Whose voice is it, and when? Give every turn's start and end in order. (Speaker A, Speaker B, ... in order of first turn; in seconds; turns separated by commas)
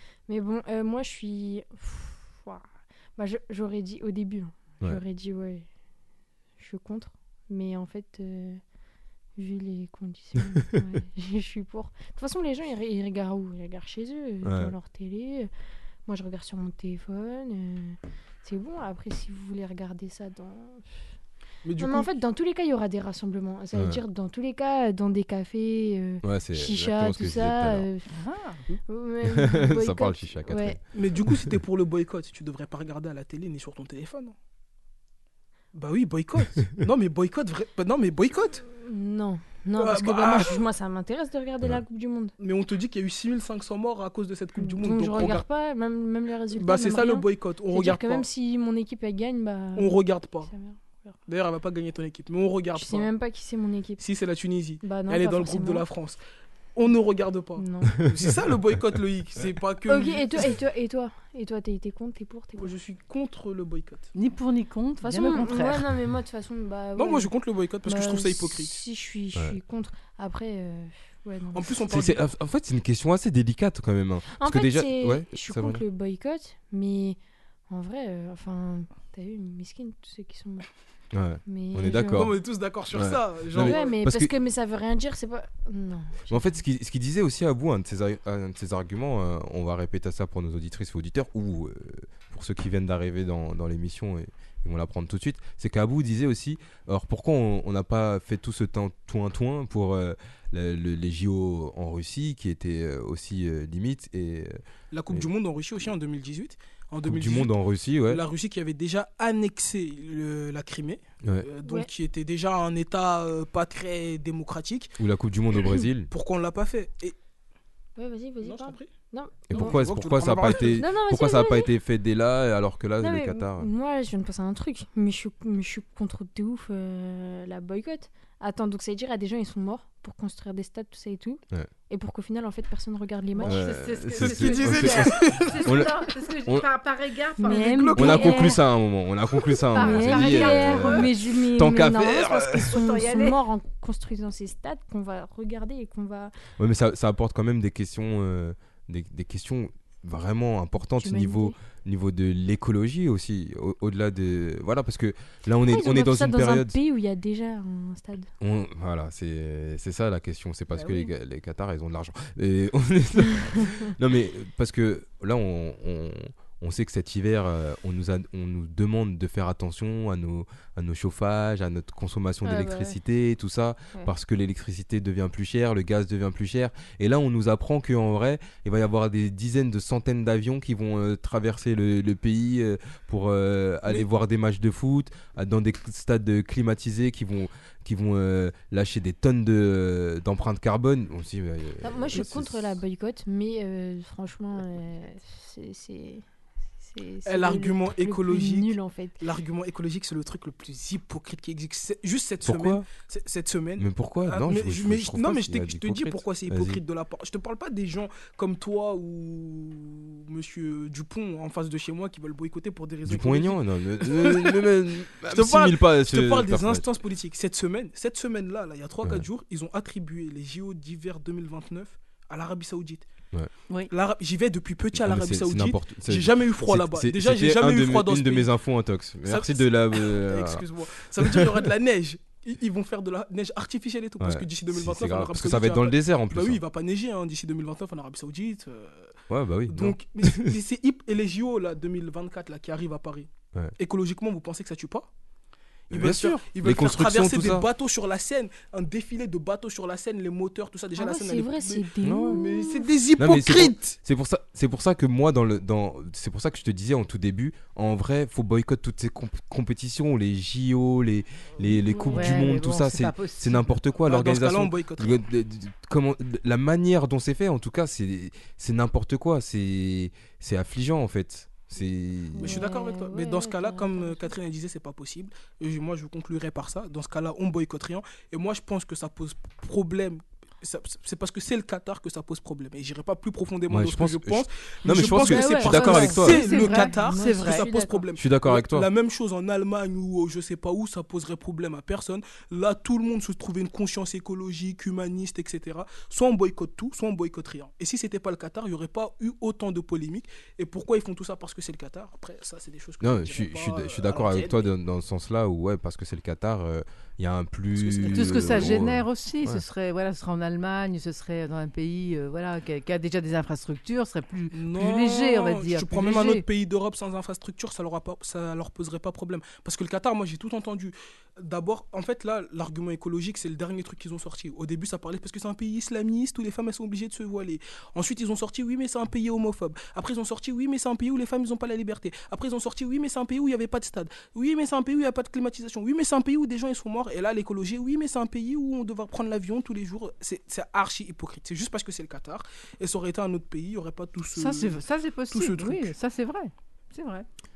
Speaker A: 0.3-2.6, Speaker A: 3.2-5.7, Speaker A: 6.6-8.6, Speaker A: 9.4-15.5, Speaker B: 14.4-14.7, Speaker A: 16.1-21.1, Speaker C: 21.6-22.1, Speaker A: 21.8-28.1, Speaker B: 23.8-24.0, Speaker B: 26.2-27.9, Speaker D: 28.1-28.6, Speaker A: 28.9-30.8, Speaker B: 29.2-30.8, Speaker C: 30.9-34.4, Speaker C: 35.7-38.6, Speaker A: 38.7-42.3, Speaker C: 39.8-40.6, Speaker C: 42.4-45.5, Speaker A: 44.6-51.2, Speaker C: 46.6-48.3, Speaker C: 49.8-50.5, Speaker C: 51.3-53.1, Speaker A: 52.8-54.0, Speaker C: 54.0-56.2, Speaker A: 54.8-55.9, Speaker C: 56.8-60.6, Speaker A: 57.6-58.1, Speaker A: 59.9-62.7, Speaker C: 62.6-64.1, Speaker D: 64.2-65.8, Speaker A: 65.0-67.3, Speaker C: 67.0-68.8, Speaker A: 67.9-71.9, Speaker C: 71.5-72.2, Speaker B: 71.9-75.8, Speaker A: 74.3-80.7, Speaker B: 81.1-82.3, Speaker A: 81.5-82.3, Speaker C: 82.2-84.0, Speaker B: 82.9-84.3, Speaker A: 83.6-86.6, Speaker B: 86.3-105.3, Speaker C: 104.9-107.5, Speaker B: 107.0-108.2, Speaker C: 108.1-114.9, Speaker A: 111.6-111.9, Speaker B: 115.0-116.1, Speaker C: 115.7-117.2, Speaker A: 118.0-119.9, Speaker C: 118.4-118.9, Speaker C: 119.5-120.8, Speaker B: 119.5-123.7, Speaker A: 120.5-121.7, Speaker A: 123.0-133.6, Speaker D: 133.3-137.9, Speaker B: 133.5-135.9, Speaker C: 134.2-135.8, Speaker A: 137.4-138.6, Speaker C: 137.4-138.6, Speaker B: 138.0-142.7, Speaker A: 139.7-146.3, Speaker D: 139.7-141.1, Speaker D: 142.7-143.4, Speaker B: 146.6-156.8, Speaker A: 151.0-151.6, Speaker A: 155.7-158.3, Speaker B: 158.4-192.8, Speaker D: 160.7-161.1, Speaker A: 172.4-173.0, Speaker A: 191.8-196.2, Speaker A: 196.8-199.2, Speaker C: 197.3-214.7, Speaker B: 202.4-202.9, Speaker B: 203.8-206.8, Speaker B: 213.1-216.8, Speaker C: 215.3-223.1, Speaker C: 223.9-228.5, Speaker B: 224.9-231.7, Speaker C: 229.2-239.2, Speaker B: 234.2-236.6, Speaker B: 239.3-240.5, Speaker C: 239.7-245.1, Speaker C: 245.9-254.0, Speaker B: 245.9-247.7, Speaker A: 251.0-253.0, Speaker B: 252.0-252.4, Speaker B: 253.2-272.6, Speaker D: 262.1-263.7, Speaker C: 264.1-265.2, Speaker A: 272.3-274.3, Speaker C: 272.4-304.7, Speaker B: 283.7-286.4, Speaker D: 285.2-287.6, Speaker A: 285.3-288.1, Speaker B: 288.2-288.9, Speaker B: 303.0-309.6, Speaker C: 307.8-308.9, Speaker D: 308.1-316.4, Speaker C: 314.5-345.9, Speaker D: 344.4-347.3